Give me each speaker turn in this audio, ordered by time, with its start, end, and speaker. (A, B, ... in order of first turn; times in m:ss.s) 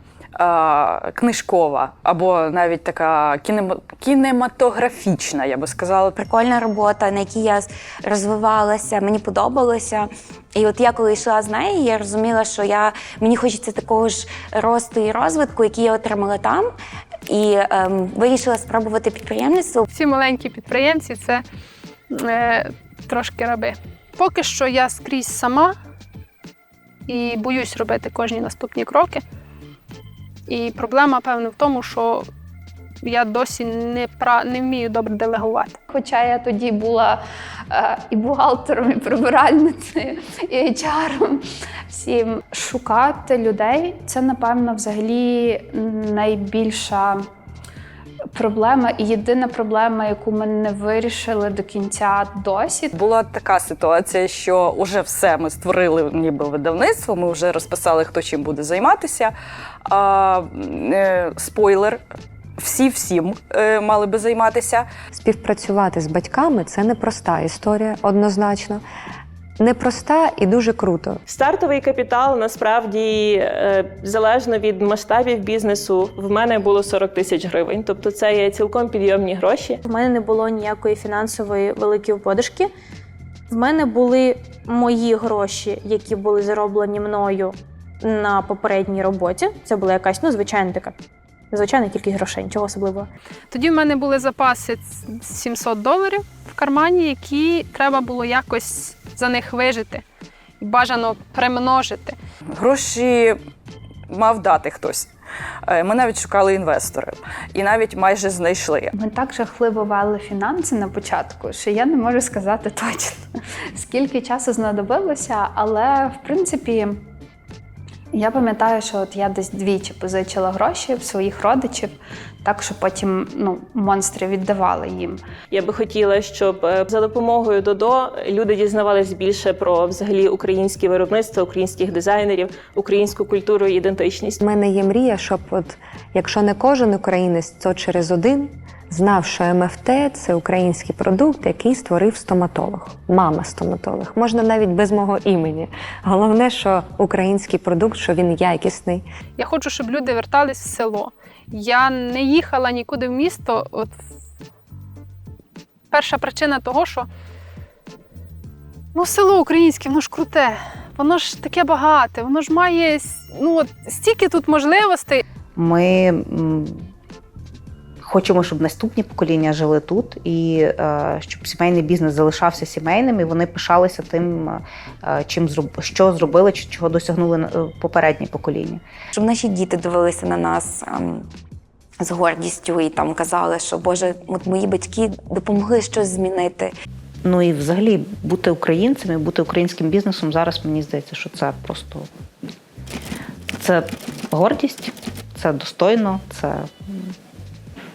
0:00.4-0:06.2 A
0:06.2-0:16.7 B
0:17.3-0:19.9 B
0:19.9-0:21.4 C
0:22.1-0:25.7 C
0:27.1-0:29.2 C
0:30.5-0:32.3 C
0:33.0-0:35.8 C
0:35.9-0:47.2 D
0:48.4-0:52.9 D
0:52.9-0:59.3 A
0:59.9-1:02.0 A
1:02.6-1:04.9 A
1:05.1-1:08.8 E
1:09.6-1:11.2 E
1:11.3-1:19.8 F
1:19.8-1:22.7 G
1:23.5-1:30.9 G
1:31.5-1:33.1 G
1:33.5-1:40.0 C
1:40.6-1:42.2 C
1:42.6-1:43.4 A
1:44.1-1:45.1 A
1:45.7-1:48.9 A
1:48.9-1:57.0 D
1:58.1-2:05.2 D
2:05.5-2:14.4 F
2:14.4-2:29.0 E
2:29.4-2:33.9 C
2:35.9-2:37.1 C
2:38.9-2:45.2 C
2:45.6-2:46.9 H
2:48.0-2:58.8 H
2:59.2-3:01.3 B
3:02.0-3:06.7 B
3:07.2-3:12.1 H
3:13.5-3:17.1 H